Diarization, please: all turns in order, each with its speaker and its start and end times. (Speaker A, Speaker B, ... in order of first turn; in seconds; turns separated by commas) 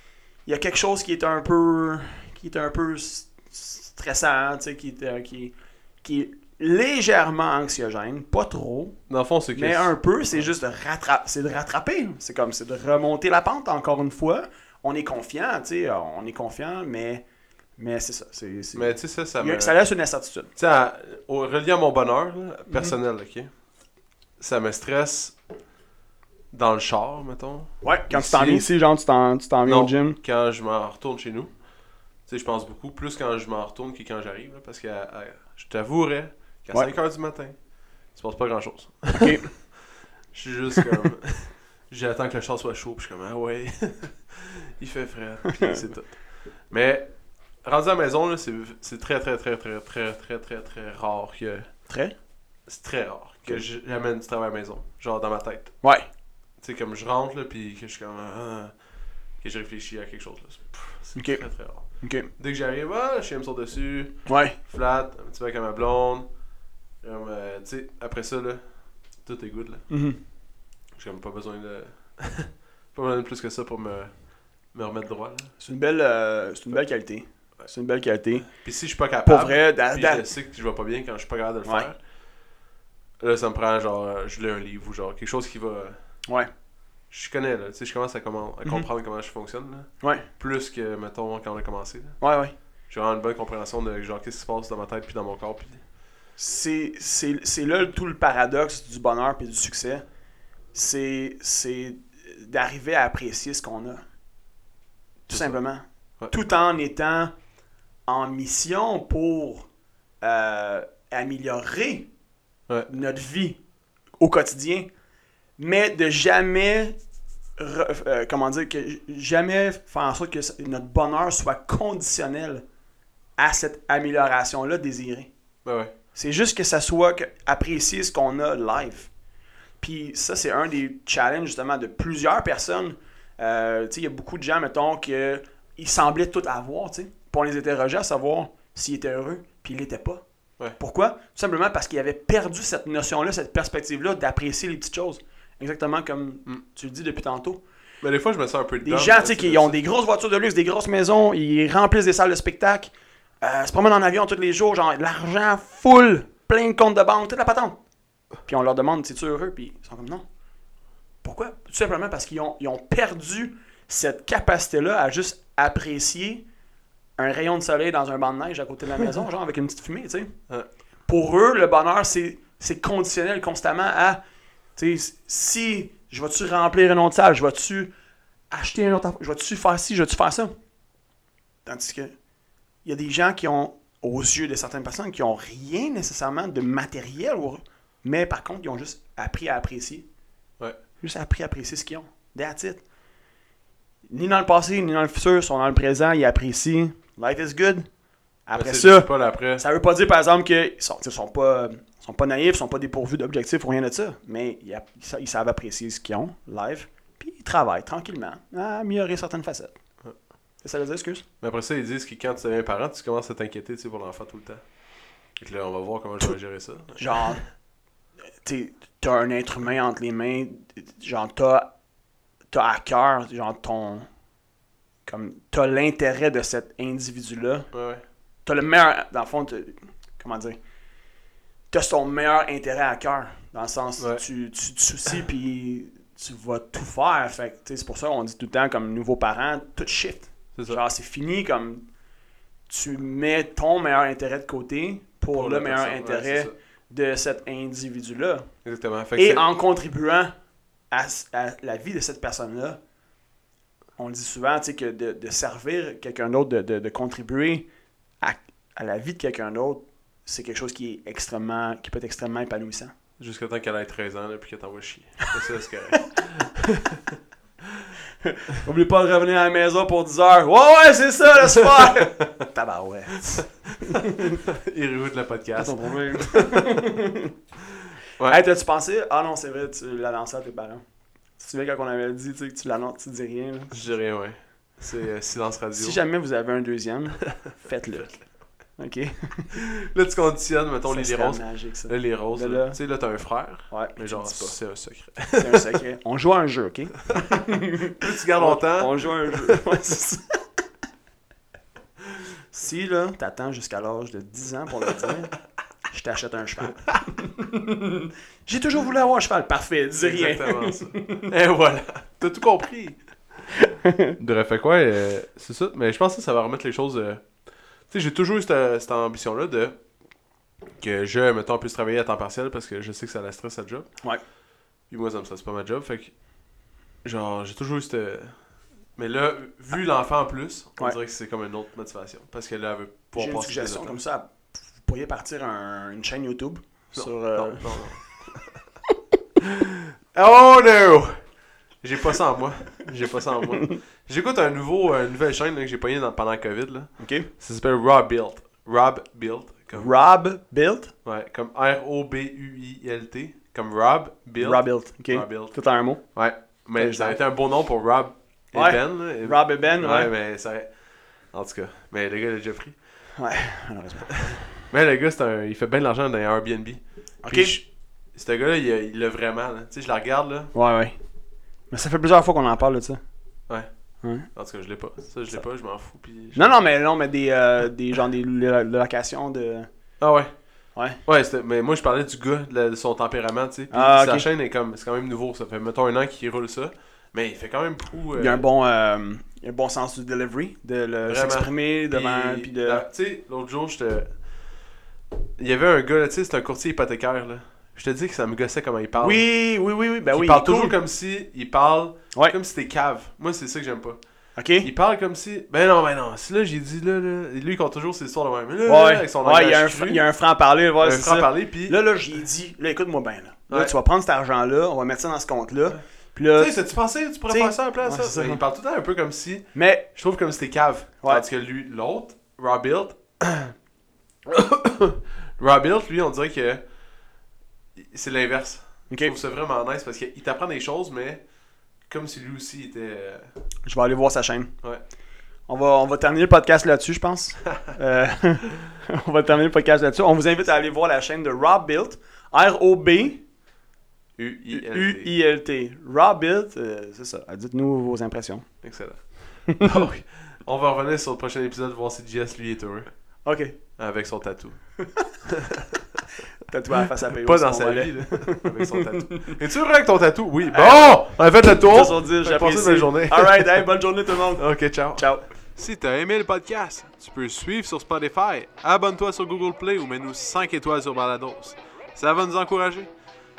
Speaker A: 0.5-9.0, Speaker B: 9.1-10.5, Speaker A: 9.5-17.2, Speaker A: 17.8-20.5, Speaker B: 18.7-19.8, Speaker B: 20.6-23.5, Speaker A: 22.7-22.9, Speaker B: 24.4-25.4, Speaker B: 26.5-28.7, Speaker A: 27.8-30.2, Speaker B: 29.6-31.5, Speaker B: 32.2-37.6, Speaker B: 38.1-47.1, Speaker A: 39.1-39.5, Speaker A: 45.5-45.8, Speaker B: 47.6-51.7, Speaker A: 51.9-52.1, Speaker B: 52.6-55.8, Speaker B: 56.6-58.8, Speaker B: 59.4-66.3, Speaker A: 61.1-62.3, Speaker A: 64.3-64.6, Speaker B: 67.0-69.8, Speaker A: 69.9-70.2, Speaker B: 70.9-75.5, Speaker A: 75.6-78.5, Speaker B: 78.4-82.0, Speaker A: 79.2-80.2, Speaker B: 83.2-86.0, Speaker B: 87.1-92.2, Speaker A: 90.0-90.3, Speaker A: 92.2-92.5, Speaker B: 92.9-95.8, Speaker A: 96.4-100.0, Speaker A: 100.7-104.0, Speaker A: 105.3-107.3, Speaker B: 105.3-105.6, Speaker A: 108.1-109.7, Speaker A: 110.2-112.1, Speaker A: 112.9-113.6, Speaker A: 114.2-114.9, Speaker A: 115.6-117.0, Speaker A: 117.6-122.6, Speaker A: 123.4-125.3, Speaker B: 125.6-125.9, Speaker A: 126.1-129.1, Speaker A: 129.8-140.2, Speaker A: 140.8-147.6, Speaker B: 148.0-149.8, Speaker A: 148.8-157.8, Speaker A: 158.4-160.2, Speaker A: 161.2-166.4, Speaker A: 167.2-170.3, Speaker A: 171.1-174.2, Speaker A: 174.8-177.9, Speaker A: 178.5-180.5, Speaker A: 181.6-182.1, Speaker A: 182.8-190.1, Speaker A: 191.0-192.8, Speaker A: 194.1-197.9, Speaker A: 198.5-209.8, Speaker B: 198.5-199.6, Speaker A: 210.6-211.2, Speaker B: 211.4-214.7, Speaker B: 215.3-217.4, Speaker A: 216.9-217.4, Speaker A: 218.4-221.7, Speaker A: 222.5-224.1, Speaker A: 225.0-227.7, Speaker B: 227.7-228.0, Speaker A: 228.4-230.6, Speaker A: 231.7-241.8, Speaker B: 234.0-234.2, Speaker B: 240.5-240.8, Speaker A: 242.7-248.5, Speaker B: 245.3-246.5, Speaker B: 248.6-249.5, Speaker A: 249.2-250.3, Speaker A: 250.9-252.8, Speaker A: 254.0-257.7, Speaker A: 258.2-262.9, Speaker B: 263.2-267.9, Speaker A: 268.2-274.4, Speaker B: 271.5-272.3, Speaker B: 273.3-276.7, Speaker A: 275.6-277.3, Speaker A: 278.2-280.8, Speaker A: 281.4-283.9, Speaker B: 283.7-286.0, Speaker A: 285.7-288.2, Speaker A: 288.8-289.6, Speaker B: 289.5-295.8, Speaker A: 290.9-292.8, Speaker A: 293.7-294.6, Speaker A: 295.4-300.4, Speaker B: 298.0-299.8, Speaker A: 302.5-305.3, Speaker A: 305.9-311.3, Speaker B: 310.0-313.0, Speaker A: 313.6-314.1, Speaker B: 314.2-317.3, Speaker B: 317.9-319.7, Speaker B: 320.8-323.9, Speaker B: 324.9-326.1, Speaker B: 327.0-328.4, Speaker B: 328.9-334.0, Speaker A: 333.1-338.0, Speaker B: 336.9-338.6, Speaker B: 339.4-341.1, Speaker B: 341.8-349.9, Speaker A: 347.0-347.3, Speaker A: 349.7-350.9, Speaker B: 351.0-355.6, Speaker A: 354.4-356.0, Speaker B: 356.1-362.8, Speaker A: 356.8-357.2, Speaker A: 358.5-360.1, Speaker A: 363.1-364.4, Speaker B: 364.2-370.5, Speaker A: 367.2-367.6, Speaker A: 370.5-371.0, Speaker A: 371.7-373.0, Speaker A: 374.0-374.3, Speaker B: 374.3-376.6, Speaker A: 376.3-379.7, Speaker B: 380.0-380.3, Speaker B: 381.0-388.4, Speaker A: 383.7-384.3, Speaker A: 388.1-392.8, Speaker B: 391.1-394.1, Speaker B: 395.4-399.2, Speaker A: 399.0-400.8, Speaker B: 400.1-404.0, Speaker A: 404.4-404.7, Speaker B: 404.6-410.1, Speaker A: 408.6-416.7, Speaker B: 410.8-411.8, Speaker B: 416.3-423.5, Speaker A: 417.3-418.4, Speaker A: 419.5-419.9, Speaker B: 424.2-426.6, Speaker B: 427.8-431.2, Speaker A: 428.9-429.1, Speaker B: 431.9-433.3, Speaker A: 433.6-434.5, Speaker A: 435.5-443.2, Speaker B: 444.2-445.1, Speaker A: 444.5-448.5, Speaker B: 448.6-452.9, Speaker A: 453.2-453.6, Speaker B: 453.8-456.0, Speaker A: 454.8-455.1, Speaker A: 456.4-459.4, Speaker B: 456.8-463.7, Speaker A: 460.5-465.3, Speaker B: 464.2-472.9